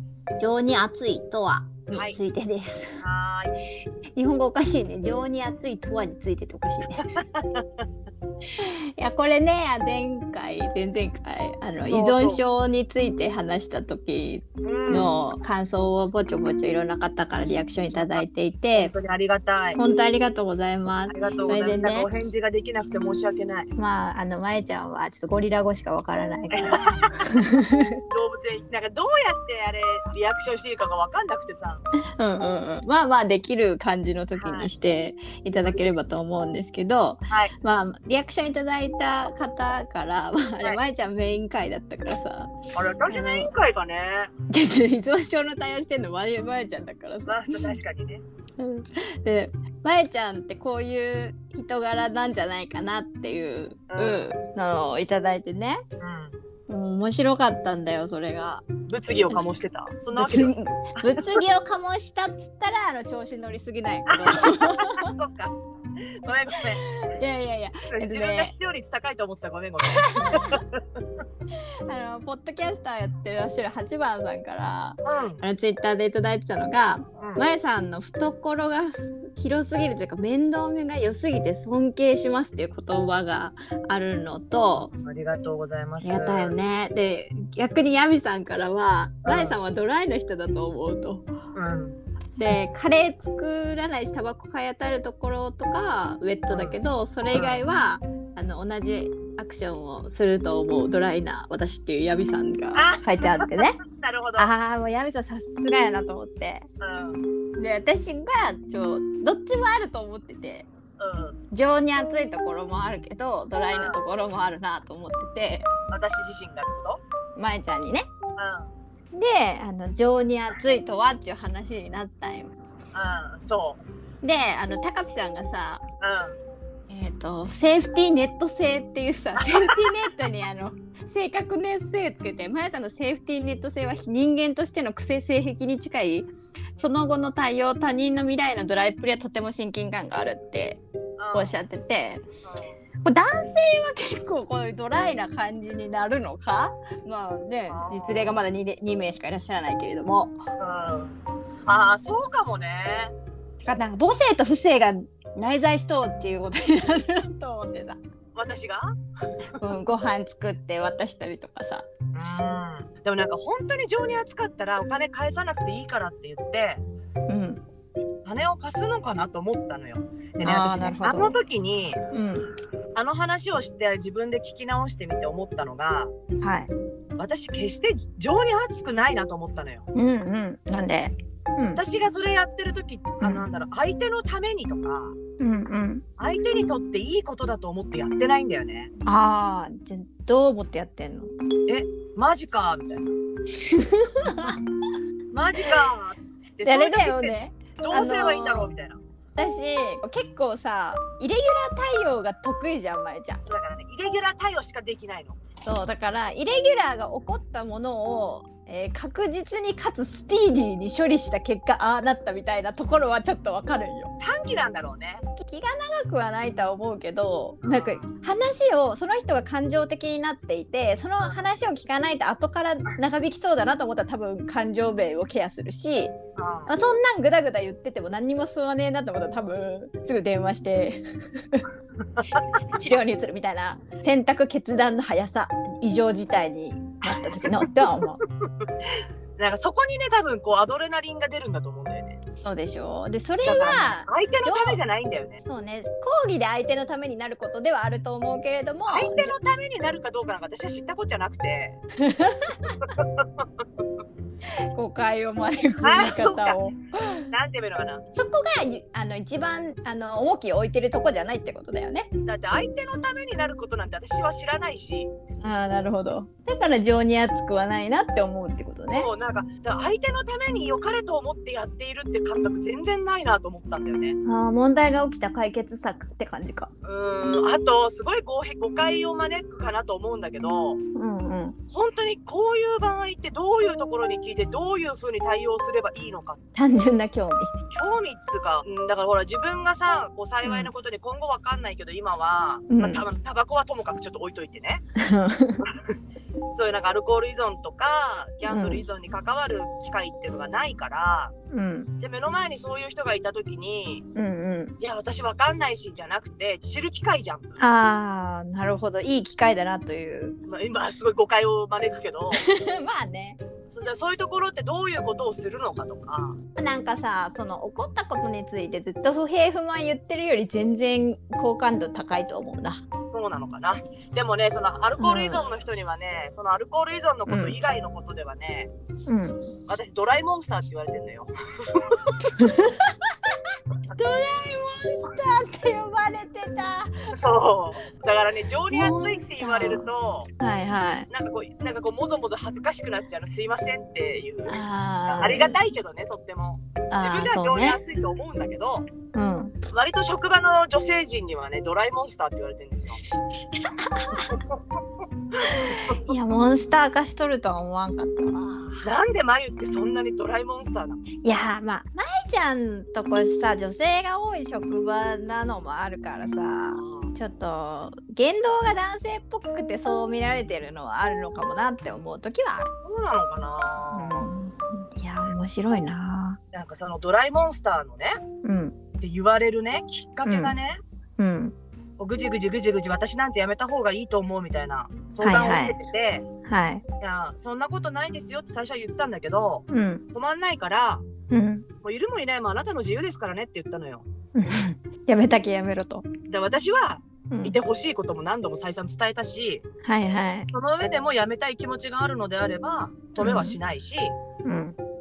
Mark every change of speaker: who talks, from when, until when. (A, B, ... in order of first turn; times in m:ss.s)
0:00.4-0:03.0 A
0:01.9-0:02.2 B
0:03.0-0:03.6 B
0:04.2-0:07.0 A
0:07.0-0:07.8 B
0:08.6-0:18.9 A
0:11.9-0:12.4 B
0:14.6-0:15.2 B
0:18.7-0:19.8 B
0:19.8-0:22.1 A
0:21.1-0:23.7 B
0:23.8-0:28.0 A
0:26.5-0:27.4 B
0:28.1-0:31.8 B
0:32.2-0:42.5 A
0:34.3-0:34.7 B
0:35.6-0:35.8 B
0:37.3-0:37.5 B
0:42.7-0:44.3 B
0:43.1-0:43.5 A
0:44.5-0:47.8 A
0:47.2-0:48.2 B
0:48.6-0:55.8 A
0:53.9-0:54.3 B
0:56.0-0:56.4 B
0:56.7-0:58.6 A
0:58.9-1:01.2 B
1:00.1-1:05.1 A
1:04.1-1:05.5 B
1:06.2-1:06.8 B
1:06.9-1:08.5 A
1:07.9-1:10.8 B
1:09.9-1:10.6 A
1:11.9-1:24.9 A
1:15.0-1:15.4 B
1:17.2-1:17.4 B
1:24.9-1:26.5 B
1:26.0-1:31.3 A
1:29.2-1:29.6 B
1:31.5-1:32.0 B
1:32.4-1:43.8 A
1:36.5-1:36.8 B
1:37.3-1:37.6 B
1:42.7-1:44.5 B
1:44.4-1:46.7 A
1:46.8-1:47.2 B
1:47.6-1:50.7 A
1:51.0-1:51.4 B
1:51.5-1:55.7 A
1:53.7-1:54.0 B
1:55.9-1:57.0 B
1:57.4-1:58.1 A
1:58.4-1:58.7 B
1:59.1-2:02.5 A
2:02.9-2:03.8 B
2:04.2-2:05.8 A
2:06.0-2:06.4 B
2:06.9-2:20.8 A
2:09.4-2:09.8 B
2:21.2-2:21.6 B
2:21.3-2:22.2 A
2:22.4-2:22.8 B
2:23.0-2:30.4 A
2:27.7-2:28.4 B
2:30.6-2:31.1 B
2:31.6-2:33.1 B
2:33.6-2:38.0 A
2:38.3-2:38.9 B
2:39.6-2:41.9 A
2:42.1-2:46.8 B
2:47.3-2:47.6 A
2:48.2-2:52.0 B
2:50.4-2:51.4 A
2:52.1-2:52.5 A
2:52.9-2:56.1 B
2:56.4-2:56.7 A
2:57.2-2:59.8 B
2:59.9-3:01.8 A
3:01.7-3:05.2 B
3:05.4-3:06.0 A
3:06.2-3:08.9 B
3:09.0-3:11.3 A
3:11.7-3:13.1 B
3:13.5-3:14.6 A
3:15.3-3:19.0 B
3:16.6-3:18.7 A
3:19.4-3:23.4 A
3:23.4-3:25.4 B
3:25.6-3:34.1 A
3:34.2-3:35.2 B
3:35.4-3:46.1 A
3:37.6-3:38.1 B
3:46.4-3:46.7 B
3:46.7-3:51.7 A
3:52.6-3:58.2 A
3:57.1-3:58.2 B
3:59.4-4:02.2 B
4:02.4-4:04.8 A
4:03.4-4:05.4 B
4:05.4-4:09.3 A
4:08.9-4:11.8 B
4:12.0-4:12.8 A
4:12.7-4:13.6 B
4:14.6-4:17.2 A
4:15.8-4:16.6 B
4:17.3-4:18.0 B
4:18.1-4:22.1 A
4:22.2-4:25.1 B
4:25.4-4:29.1 A
4:28.9-4:34.2 B
4:34.2-4:36.7 A
4:36.8-4:40.8 B
4:40.9-4:41.6 A
4:41.7-4:46.4 B
4:46.5-4:47.5 A
4:47.7-4:54.8 B
4:50.4-4:50.7 A
4:52.7-4:53.0 A
4:55.0-4:55.6 A
4:56.5-5:01.3 B
4:58.5-4:58.8 A
5:01.5-5:01.9 A
5:02.0-5:04.0 B
5:04.1-5:04.7 A
5:04.8-5:07.6 B
5:07.6-5:10.4 A
5:10.4-5:12.4 B
5:12.3-5:13.4 A
5:13.7-5:16.3 B
5:16.6-5:22.8 A
5:23.1-5:28.7 B
5:25.0-5:25.5 A
5:27.3-5:27.6 A
5:29.0-5:29.4 A
5:29.7-5:32.1 B
5:32.2-5:33.1 A
5:33.9-5:37.1 A
5:37.1-5:40.3 B
5:38.7-5:39.9 A
5:40.4-5:41.1 A
5:41.1-5:48.8 B
5:44.5-5:45.6 A
5:46.9-5:47.8 A
5:49.1-5:49.5 A
5:49.7-5:53.0 B
5:53.8-5:54.3 A
5:54.3-5:54.6 B
5:55.4-5:58.9 A
5:55.5-5:56.0 B
5:58.8-6:01.0 B
6:01.2-6:12.7 A
6:06.7-6:07.1 B
6:12.8-6:14.3 B
6:13.9-6:16.4 A
6:16.5-6:18.2 B
6:18.4-6:18.8 A
6:19.0-6:20.8 B
6:20.2-6:20.5 A
6:21.2-6:21.5 A
6:22.0-6:26.2 B
6:25.2-6:25.8 A
6:26.4-6:26.8 A
6:27.0-6:31.0 B
6:29.7-6:30.0 A
6:31.3-6:31.6 A
6:31.8-6:34.0 B
6:34.3-6:36.1 A
6:36.3-6:39.6 B
6:37.3-6:37.6 A
6:39.8-6:40.5 A
6:40.5-6:44.1 B
6:43.2-6:43.6 A
6:44.4-6:44.8 A